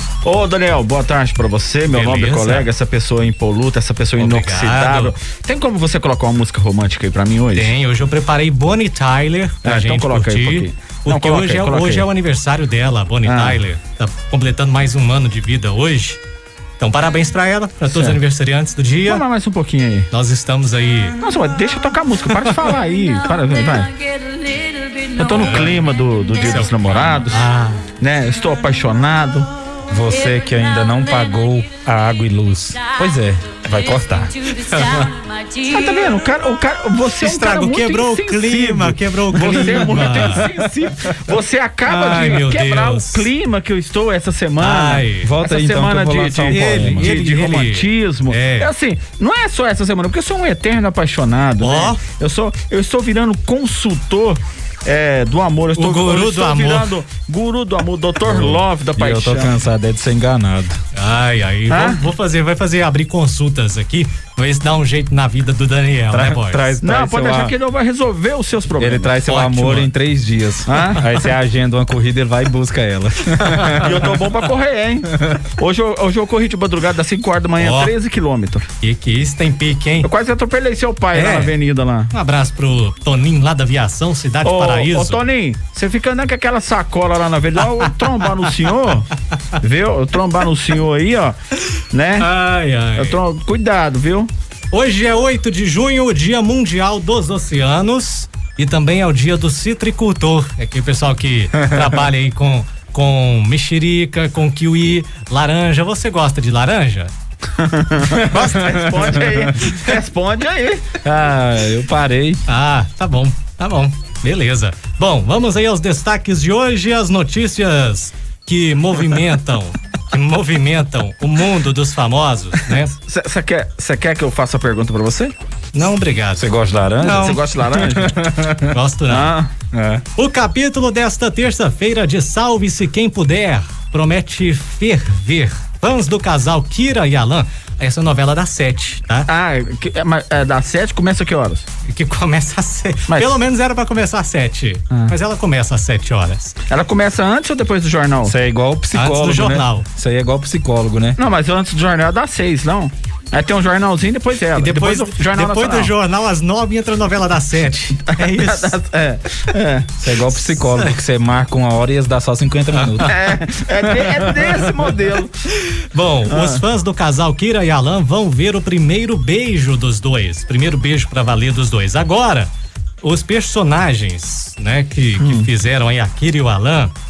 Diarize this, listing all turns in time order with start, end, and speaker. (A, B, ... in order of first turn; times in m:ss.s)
0:00.2-0:07.7 A
0:01.9-0:02.7 B
0:04.2-0:05.2 B
0:07.6-0:16.2 B
0:09.6-0:12.1 A
0:13.2-0:13.6 A
0:16.8-0:19.2 B
0:17.9-0:18.2 A
0:19.1-0:20.1 A
0:20.1-0:21.2 B
0:21.2-0:24.0 A
0:22.3-0:22.7 B
0:25.2-0:27.4 A
0:25.3-0:25.8 B
0:26.4-0:27.8 B
0:28.0-0:29.5 A
0:29.9-0:34.4 C
0:34.6-0:35.2 B
0:35.6-0:59.6 A
0:37.2-0:40.5 B
0:39.3-0:41.3 C
0:41.9-0:43.3 B
0:44.6-0:45.3 B
0:45.2-0:47.2 C
0:46.5-0:48.7 B
0:51.6-0:52.0 B
0:55.8-0:57.0 B
0:58.2-1:00.8 C
1:01.0-1:06.7 B
1:01.7-1:02.0 A
1:06.1-1:07.6 C
1:06.8-1:09.2 A
1:08.8-1:14.2 C
1:09.3-1:09.9 B
1:10.7-1:11.1 A
1:13.5-1:13.8 B
1:13.8-1:18.7 A
1:17.6-1:18.0 B
1:18.8-1:20.1 B
1:20.0-1:22.1 A
1:21.1-1:21.6 B
1:22.1-1:25.2 B
1:24.4-1:31.4 A
1:31.9-1:32.3 A
1:32.2-1:33.2 B
1:33.0-1:34.3 A
1:34.7-1:47.1 B
1:41.6-1:41.9 C
1:47.6-1:50.9 A
1:48.1-1:49.6 C
1:48.2-1:49.2 B
1:51.0-1:52.4 C
1:52.5-2:03.0 B
2:03.1-2:05.3 A
2:05.7-2:06.4 B
2:06.4-2:08.8 C
2:07.0-2:07.5 B
2:07.1-2:08.2 A
2:08.7-2:09.4 B
2:09.1-2:09.5 A
2:09.7-2:10.0 C
2:10.2-2:19.3 B
2:19.3-2:21.6 A
2:21.9-2:26.5 B
2:26.7-2:28.4 A
2:28.2-2:31.2 C
2:28.9-2:29.9 B
2:31.2-2:35.9 A
2:34.5-2:38.8 B
2:38.0-2:40.0 A
2:40.0-2:43.1 C
2:40.7-2:41.0 B
2:42.7-2:43.1 B
2:43.1-2:45.3 A
2:44.0-2:44.7 C
2:45.9-2:52.5 B
2:46.3-2:46.6 A
2:53.0-2:56.9 B
2:55.2-2:55.5 A